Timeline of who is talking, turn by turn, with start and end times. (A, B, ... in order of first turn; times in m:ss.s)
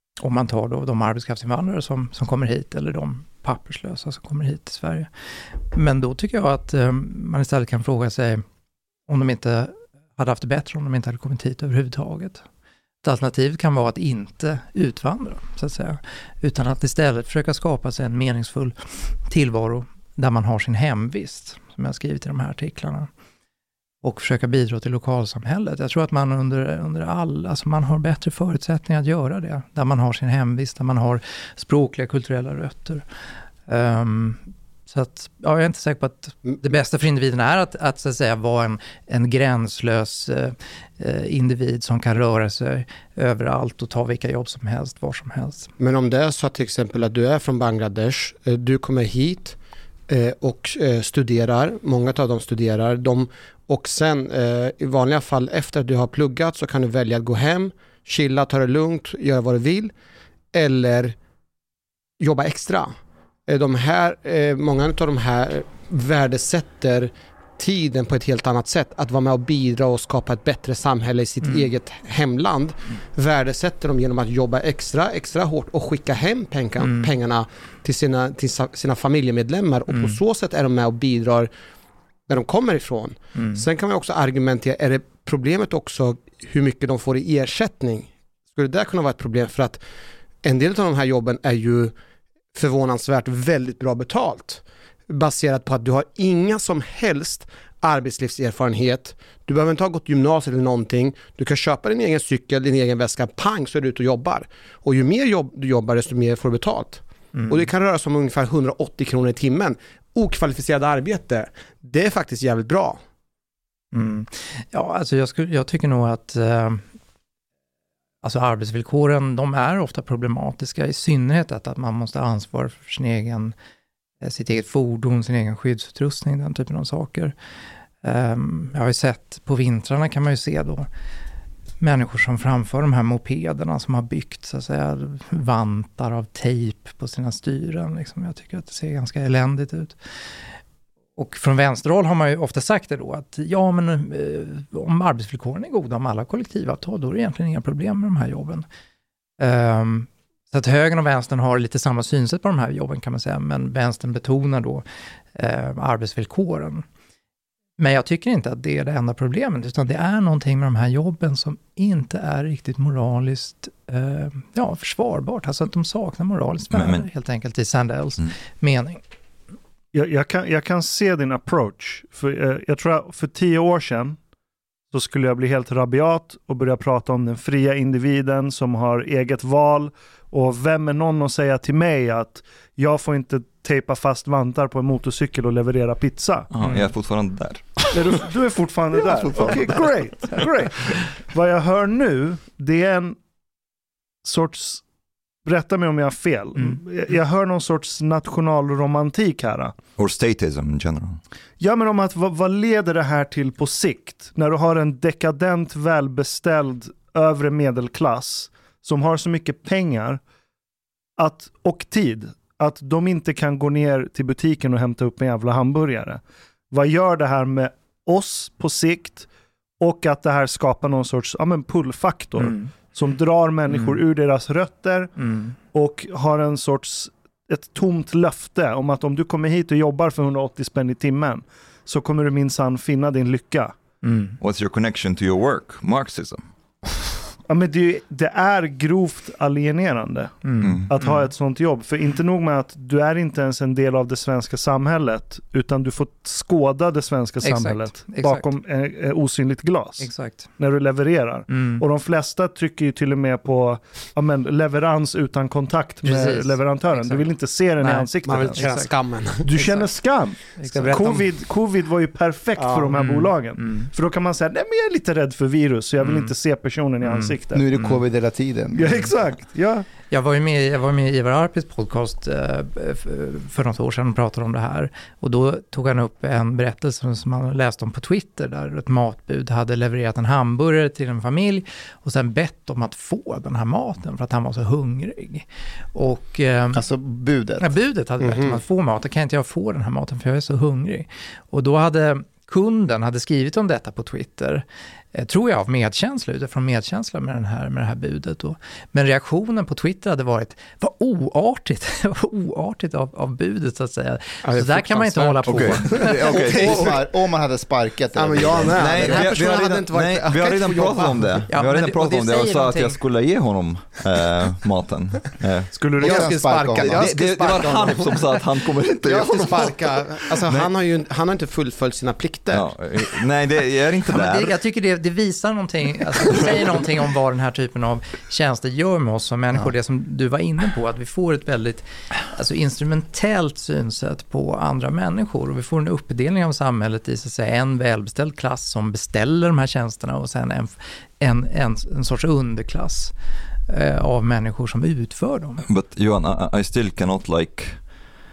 0:00.2-0:05.1 A
0:05.7-0:08.4 A
0:09.1-0:12.4 A
0:13.0-0:23.1 A
0:24.0-0:33.0 A
0:33.7-0:45.7 A
0:45.8-0:49.6 B
0:50.1-0:59.9 B
1:00.5-1:01.2 B
1:02.2-1:02.9 B
1:03.5-1:21.5 B
1:11.4-1:11.7 A
1:16.8-1:17.1 A
1:19.9-1:20.2 A
1:22.3-1:29.8 B
1:23.4-1:23.6 A
1:30.4-1:31.9 B
1:32.5-1:53.0 B
1:47.3-1:47.7 A
1:53.9-1:56.8 A
1:58.2-2:03.5 A
2:04.2-2:07.3 A
2:08.0-2:10.9 A
2:11.8-2:20.0 A
2:21.2-2:28.6 A
2:29.4-2:36.8 A
2:37.8-2:49.0 A
2:46.7-2:47.1 C
2:49.9-2:54.2 D
2:54.9-3:06.5 D
3:06.5-3:07.9 C
3:06.6-3:06.9 A
3:07.9-3:13.2 D
3:14.2-3:14.8 D
3:15.4-3:19.8 D
3:20.0-3:21.2 C
3:21.6-3:30.2 D
3:31.2-3:39.3 D
3:39.8-3:45.1 D
3:42.4-3:42.7 A
3:43.7-3:44.0 A
3:45.2-3:45.5 A
3:45.7-3:53.8 D
3:54.0-3:54.4 A
3:54.4-3:56.4 C
3:57.5-4:18.7 D
4:00.4-4:01.3 A
4:00.6-4:00.9 C
4:07.4-4:08.5 A
4:10.0-4:10.5 A
4:11.5-4:11.8 A
4:16.0-4:18.9 A
4:18.2-4:19.9 B
4:19.4-4:27.6 D
4:20.6-4:21.2 A
4:20.7-4:21.3 B
4:22.6-4:23.0 B
4:22.9-4:23.9 A
4:26.0-4:26.3 A
4:27.0-4:28.0 A
4:27.5-4:29.1 E
4:28.7-4:29.8 D
4:30.1-4:46.8 A
4:46.7-4:47.7 E
4:47.6-5:06.4 A
4:48.2-4:48.6 B
5:04.4-5:07.0 B
5:05.5-5:07.0 C
5:06.3-5:09.2 E
5:08.1-5:11.4 B
5:08.6-5:15.7 C
5:11.5-5:13.0 A
5:15.8-5:22.8 B
5:15.8-5:17.0 D
5:16.0-5:17.1 E
5:16.9-5:20.7 C
5:22.5-5:24.5 C
5:24.1-5:43.1 A
5:43.7-5:45.6 A
5:45.6-5:47.8 C